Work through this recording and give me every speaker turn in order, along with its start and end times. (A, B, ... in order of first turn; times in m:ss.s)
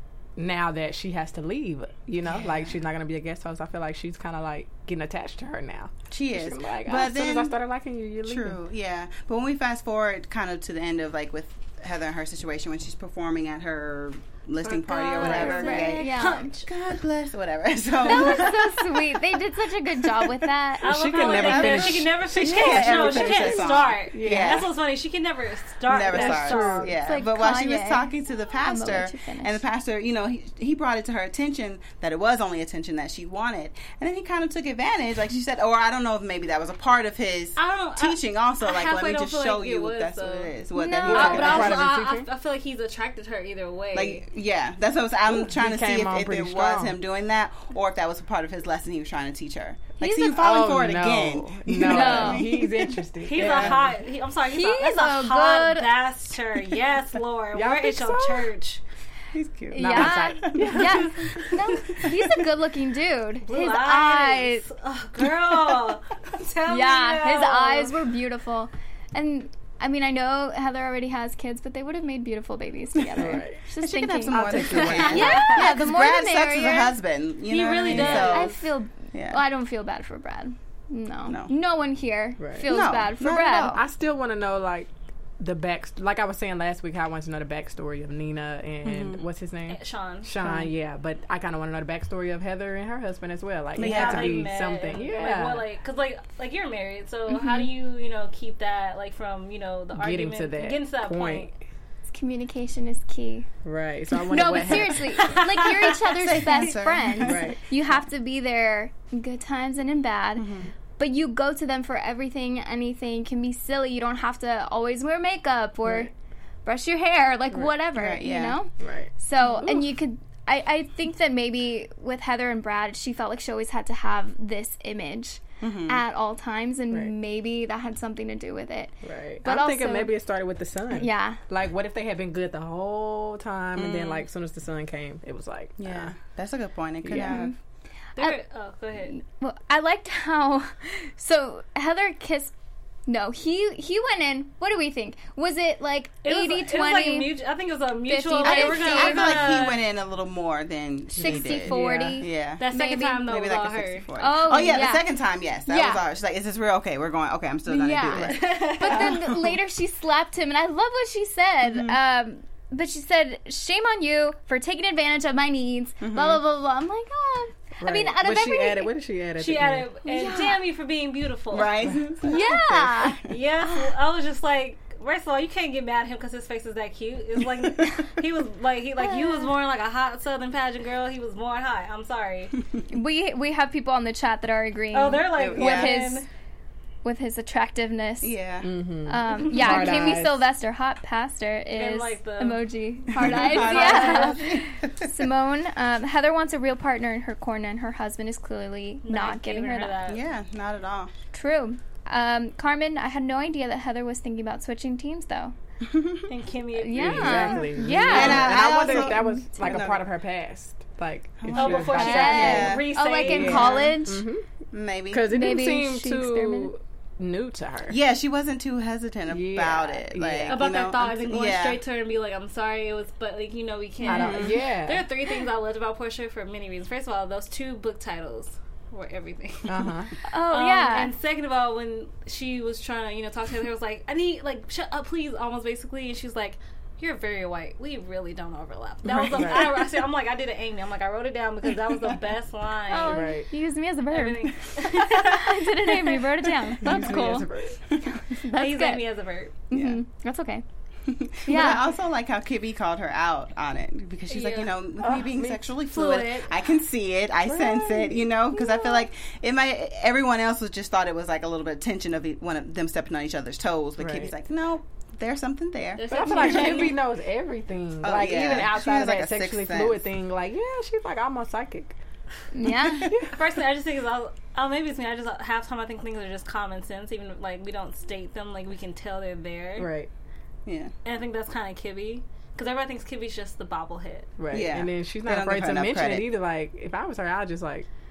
0:00.4-0:08.6 A
0:02.2-0:02.7 B
0:06.1-0:07.5 B
0:08.2-0:19.1 B
0:14.7-0:15.9 A
0:15.1-0:16.5 C
0:15.1-0:16.7 D
0:18.0-0:20.9 C
0:18.1-0:18.4 D
0:20.8-0:26.9 D
0:20.8-0:24.7 A
0:21.2-0:24.7 B
0:25.9-0:41.8 B
0:26.0-0:26.9 A
0:26.8-0:29.6 C
0:37.6-0:44.2 D
0:40.7-0:41.8 C
0:41.0-0:42.3 A
0:43.9-0:53.8 B
0:45.3-0:47.0 A
0:50.0-0:50.4 C
0:50.2-0:54.0 A
0:51.8-0:52.5 C
0:53.2-0:58.8 D
0:54.5-0:55.9 C
0:57.5-0:58.5 A
0:59.3-1:02.1 B
0:59.7-1:04.7 C
0:59.8-1:01.1 A
1:00.7-1:01.8 D
1:03.4-1:08.0 D
1:06.7-1:16.9 C
1:13.2-1:13.6 A
1:13.2-1:18.5 B
1:14.2-1:15.4 A
1:14.7-1:15.7 D
1:17.5-1:18.6 D
1:17.9-1:18.4 A
1:18.0-1:23.8 C
1:19.1-1:19.4 B
1:21.3-1:21.5 B
1:22.4-1:22.7 A
1:22.7-1:23.8 B
1:23.7-1:35.6 A
1:28.8-1:29.2 B
1:29.7-1:30.3 D
1:30.4-1:30.7 B
1:33.8-1:34.5 B
1:33.8-1:41.5 D
1:37.3-1:37.7 C
1:39.9-1:41.5 A
1:42.1-1:43.5 C
1:43.6-1:45.2 A
1:44.2-1:50.5 C
1:45.0-1:46.7 D
1:46.0-1:47.5 B
1:47.2-1:47.6 A
1:50.4-1:50.7 B
1:51.0-1:56.1 C
1:55.8-1:56.1 A
1:56.6-2:10.1 C
1:57.9-1:58.6 B
1:58.8-2:00.0 A
2:05.6-2:06.0 B
2:09.0-2:16.1 A
2:10.9-2:11.4 C
2:13.8-2:14.2 B
2:15.8-2:17.5 B
2:17.0-2:17.4 A
2:17.1-2:17.5 C
2:18.2-2:19.2 D
2:19.1-2:22.5 C
2:23.1-2:27.3 C
2:26.2-2:29.8 D
2:28.1-2:29.6 C
2:28.4-2:32.6 B
2:31.2-2:32.2 A
2:31.2-2:33.4 C
2:32.6-2:34.1 D
2:33.2-2:39.6 B
2:34.2-2:35.1 C
2:35.7-2:36.0 C
2:37.7-2:48.9 C
2:38.2-2:39.2 D
2:41.6-2:42.0 B
2:46.0-2:46.4 B
2:47.8-2:49.9 A
2:49.4-2:51.9 D
2:50.0-2:50.6 C
2:51.5-2:53.2 B
2:52.2-2:53.2 C
2:53.2-3:02.6 D
2:59.0-2:59.5 C
3:02.9-3:06.2 C
3:04.9-3:06.3 D
3:05.3-3:06.0 B
3:07.0-3:08.3 C
3:08.2-3:08.7 B
3:08.6-3:10.4 A
3:09.1-3:20.0 C
3:09.3-3:10.2 D
3:11.7-3:14.4 D
3:13.1-3:15.2 B
3:19.0-3:20.2 D
3:20.0-3:21.1 B
3:21.3-3:25.5 C
3:25.8-3:26.3 B
3:26.3-3:27.8 D
3:26.8-3:29.7 C
3:26.9-3:34.4 A
3:27.9-3:30.0 B
3:31.4-3:32.9 B
3:31.5-3:33.9 D
3:31.9-3:34.2 C
3:33.5-3:33.9 B
3:34.7-3:35.3 B
3:35.1-3:38.0 A
3:35.3-3:36.7 C
3:37.9-3:41.8 B
3:39.3-3:40.7 A
3:40.5-3:49.9 D
3:44.0-3:44.3 C
3:44.0-3:45.1 A
3:44.1-3:44.5 B
3:49.7-3:50.1 A
3:50.3-3:51.1 C
3:50.4-4:03.3 D
3:59.0-3:59.8 A
4:02.9-4:07.5 C
4:03.1-4:03.5 A
4:04.1-4:06.7 D
4:06.8-4:07.8 A
4:06.8-4:08.1 B
4:08.0-4:09.0 C
4:08.5-4:09.6 D
4:09.7-4:10.6 C
4:09.7-4:10.0 B
4:11.1-4:26.9 B
4:11.4-4:11.8 C
4:14.3-4:14.7 D
4:15.0-4:15.8 A
4:15.9-4:16.5 D
4:17.4-4:18.2 A
4:18.5-4:19.0 C
4:24.0-4:24.3 A
4:26.0-4:27.0 D
4:26.1-4:32.0 A
4:28.0-4:30.0 B
4:32.5-4:33.1 C
4:32.6-4:33.1 B
4:33.2-4:39.9 D
4:39.8-4:40.1 A
4:40.6-4:40.9 B
4:41.0-4:44.3 D
4:44.4-4:47.9 A
4:44.5-4:46.3 B